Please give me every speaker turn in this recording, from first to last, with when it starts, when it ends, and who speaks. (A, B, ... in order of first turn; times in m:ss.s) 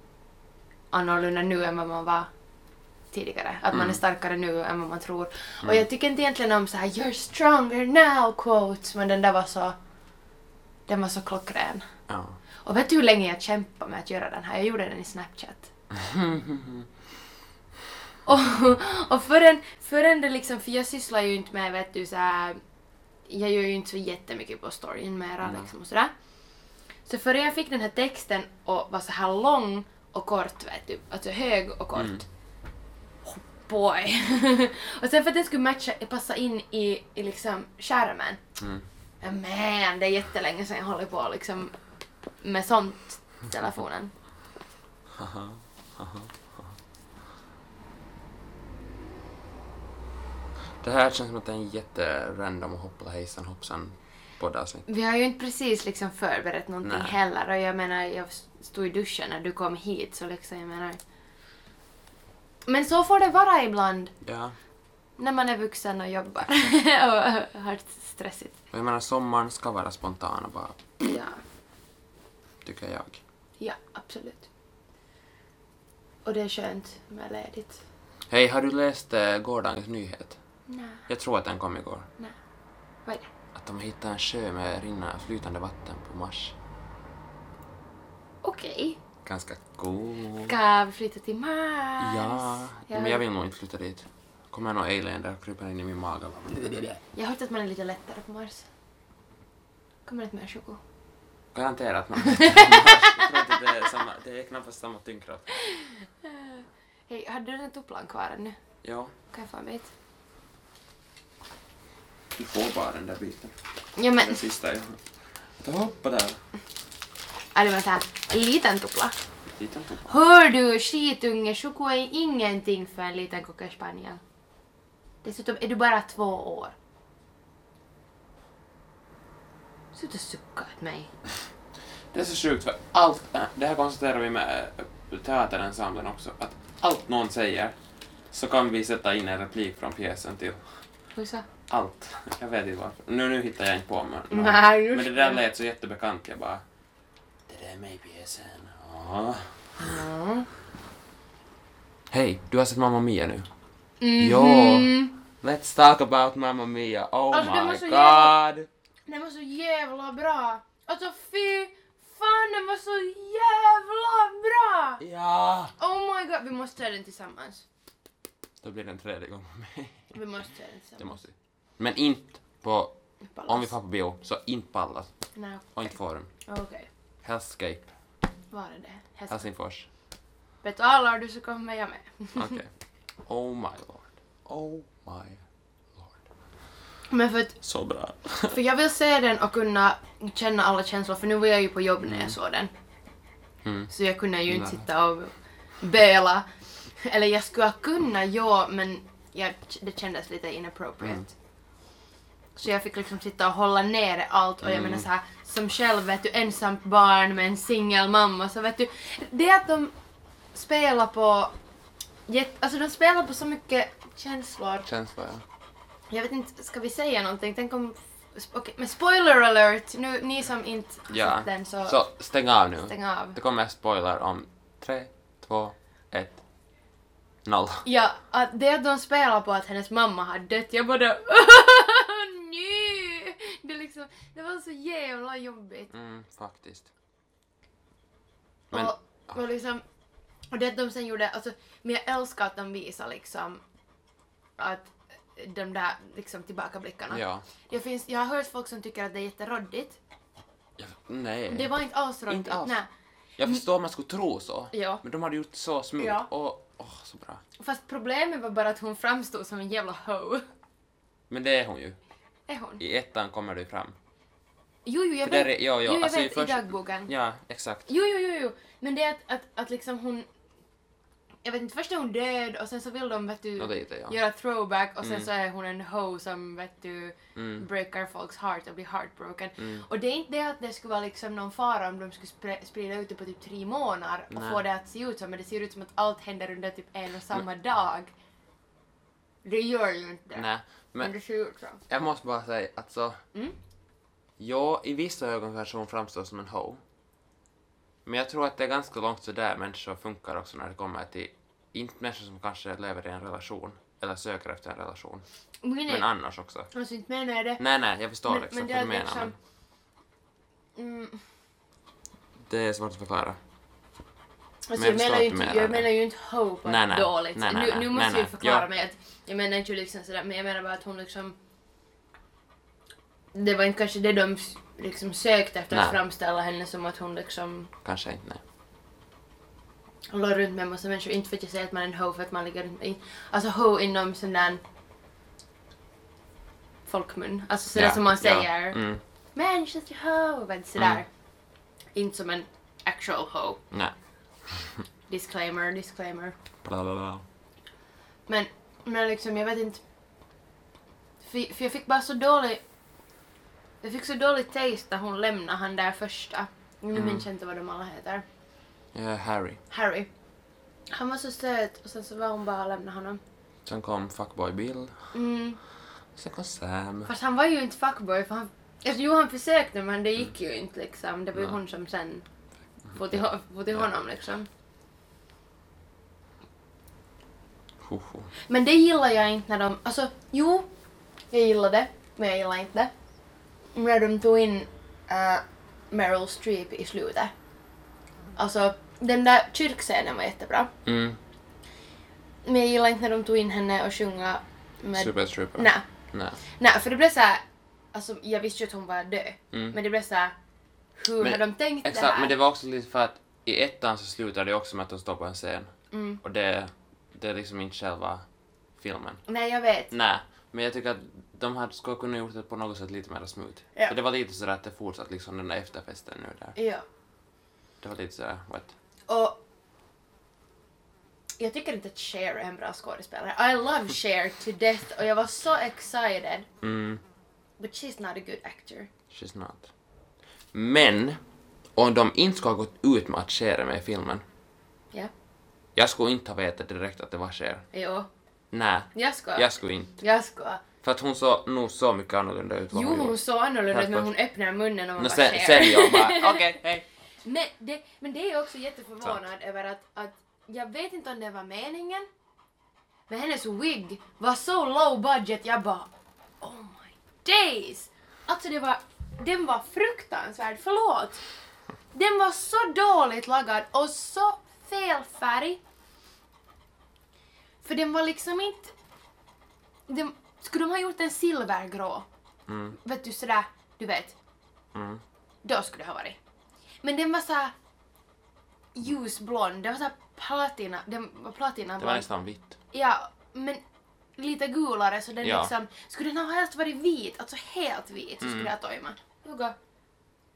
0:00.9-0:02.3 A
0:03.1-0:09.8 A
0:03.7-0:04.0 B
0:10.9-0:11.9 A
0:12.1-0:12.4 B
0:12.6-0:15.7 A
0:15.9-0:16.9 B
0:18.2-0:22.6 A
0:23.3-0:26.1 A
0:25.4-0:25.7 B
0:27.0-0:32.2 A
0:32.0-0:32.2 B
0:33.2-0:38.4 A
0:38.6-0:38.8 B
0:39.2-0:41.7 A
0:42.4-0:44.1 A
0:45.1-0:46.7 B
0:50.8-0:54.8 B
0:54.9-1:01.0 A
0:56.8-0:57.2 B
1:02.7-1:04.1 A
1:04.2-1:04.6 B
1:05.2-1:08.5 A
1:08.7-1:10.8 B
1:11.0-1:11.4 A
1:12.6-1:13.2 B
1:13.6-1:14.5 A
1:16.2-1:17.8 A
1:18.3-1:20.4 B
1:20.7-1:21.0 A
1:21.1-1:22.1 B
1:23.5-1:26.5 B
1:28.4-1:29.0 A
1:29.2-1:30.6 B
1:30.4-1:33.2 A
1:32.0-1:37.0 B
1:37.1-1:38.7 A
1:40.0-1:40.8 A
1:41.5-1:45.5 B
1:42.2-1:43.6 A
1:45.5-1:48.6 A
1:48.8-1:49.1 B
1:49.3-1:49.9 A
1:52.3-1:53.5 B
1:54.0-1:54.4 A
1:54.1-1:55.0 B
1:55.6-1:56.4 B
1:57.5-1:59.1 A
1:59.5-2:00.1 B
2:00.0-2:04.2 A
2:05.2-2:06.7 A
2:09.9-2:11.1 A
2:12.1-2:17.8 B
2:18.3-2:20.6 B
2:21.2-2:21.4 A
2:21.7-2:26.6 B
2:24.3-2:25.4 A
2:27.5-2:30.0 B
2:29.8-2:30.5 A
2:32.1-2:33.5 B
2:34.0-2:35.1 A
2:34.2-2:38.7 B
2:37.3-2:38.3 A
2:39.1-2:45.0 A
2:45.0-2:45.7 B
2:45.8-2:47.6 A
2:48.6-2:50.2 B
2:50.1-2:51.2 A
2:51.0-2:52.9 B
2:53.3-2:53.7 A
2:53.5-2:55.1 B
2:55.4-2:55.9 A
2:55.7-2:56.3 B
2:56.4-2:56.9 A
2:57.2-2:57.9 B
2:58.5-2:59.5 A
2:59.3-2:59.9 B
3:00.6-3:02.6 A
3:02.4-3:02.7 B
3:03.2-3:05.4 B
3:05.9-3:06.2 B
3:07.1-3:07.6 A
3:07.6-3:08.6 B
3:08.5-3:12.7 A
3:12.0-3:12.4 B
3:13.6-3:13.9 B
3:13.9-3:21.3 A
3:14.5-3:14.8 B
3:22.6-3:29.9 A
3:24.6-3:25.1 B
3:30.5-3:31.5 A
3:32.3-3:34.9 A
3:34.8-3:35.4 B
3:36.1-3:42.0 A
3:41.1-3:46.4 B
3:42.8-3:43.4 A
3:47.4-3:47.8 B
3:47.8-3:55.9 A
3:55.9-3:56.9 B
3:58.7-3:59.8 A
4:00.5-4:03.6 A
4:04.6-4:10.0 A
4:07.1-4:07.5 B
4:10.8-4:11.7 B
4:11.5-4:12.9 A
4:12.3-4:12.8 B
4:13.4-4:17.4 B
4:14.7-4:15.0 A
4:16.0-4:16.3 A
4:17.6-4:20.4 A
4:21.3-4:22.0 B
4:22.5-4:22.8 A
4:22.8-4:23.9 B
4:24.8-4:27.1 A
4:25.2-4:27.9 B
4:27.9-4:30.2 A
4:31.4-4:48.1 A
4:33.6-4:34.2 B
4:35.0-4:35.3 B
4:37.3-4:37.6 B
4:39.6-4:39.8 B
4:44.3-4:44.6 B
4:49.4-4:50.5 A
4:50.3-4:51.1 B
4:51.0-4:51.8 A
4:51.9-4:53.2 B
4:54.4-4:56.8 B
4:58.0-5:05.2 B
5:05.6-5:06.1 A
5:05.9-5:06.7 B
5:06.7-5:07.6 A
5:07.6-5:09.3 B
5:08.2-5:09.3 A
5:10.8-5:11.2 A
5:12.4-5:13.4 B
5:14.7-5:21.4 A
5:14.8-5:15.9 B
5:16.6-5:18.7 B
5:23.3-5:27.7 A
5:25.7-5:26.0 B
5:27.8-5:28.4 B
5:30.1-5:34.6 A
5:36.8-5:38.8 A
5:37.7-5:39.0 B
5:39.4-5:41.1 A
5:40.8-5:41.0 B
5:41.9-5:43.6 A
5:44.5-5:44.8 B
5:45.1-5:46.3 A
5:46.6-5:47.2 B
5:48.3-5:49.8 A
5:51.2-5:52.6 A
5:53.8-5:58.2 A
5:56.9-5:57.2 B
5:58.9-5:59.6 B
5:59.7-6:00.1 A
6:00.9-6:03.2 A
6:03.6-6:05.1 B
6:05.1-6:05.6 A
6:06.1-6:07.1 B
6:07.0-6:12.2 A
6:12.9-6:14.5 A
6:12.9-6:13.2 B
6:17.8-6:18.3 B
6:18.5-6:20.7 A
6:21.3-6:22.9 A
6:23.7-6:27.3 A
6:28.4-6:30.7 A
6:30.8-6:31.2 B
6:32.4-6:35.8 A
6:34.9-6:36.4 B
6:36.5-6:37.4 A
6:37.9-6:40.3 A
6:39.5-6:39.8 B
6:41.0-6:42.3 A
6:41.2-6:48.2 B
6:45.9-6:46.2 A
6:48.8-6:49.2 B
6:49.3-6:49.9 A
6:49.9-6:56.6 B
6:56.6-6:56.8 A
6:57.8-6:58.7 B
6:59.1-6:59.4 A
7:01.4-7:06.5 A
7:06.6-7:07.0 B
7:07.6-7:08.9 A
7:09.1-7:09.7 B
7:10.5-7:11.2 B
7:11.8-7:14.2 B
7:15.8-7:17.6 B
7:17.7-7:18.1 A
7:18.5-7:20.0 B
7:18.9-7:20.6 A
7:20.8-7:24.1 B
7:22.7-7:26.6 A
7:25.0-7:26.8 B
7:27.2-7:32.0 A
7:33.1-7:35.9 A
7:36.4-7:41.2 A
7:41.9-7:45.6 A
7:47.6-7:48.7 A
7:49.9-7:52.0 A
7:52.5-7:52.8 B
7:52.8-7:54.2 A
7:54.7-7:55.0 B
7:55.4-7:56.2 A
7:56.8-7:57.5 A
7:58.7-8:02.0 A
8:01.8-8:02.6 B
8:02.7-8:03.6 A
8:04.2-8:09.5 A
8:05.2-8:05.5 B
8:08.2-8:08.5 B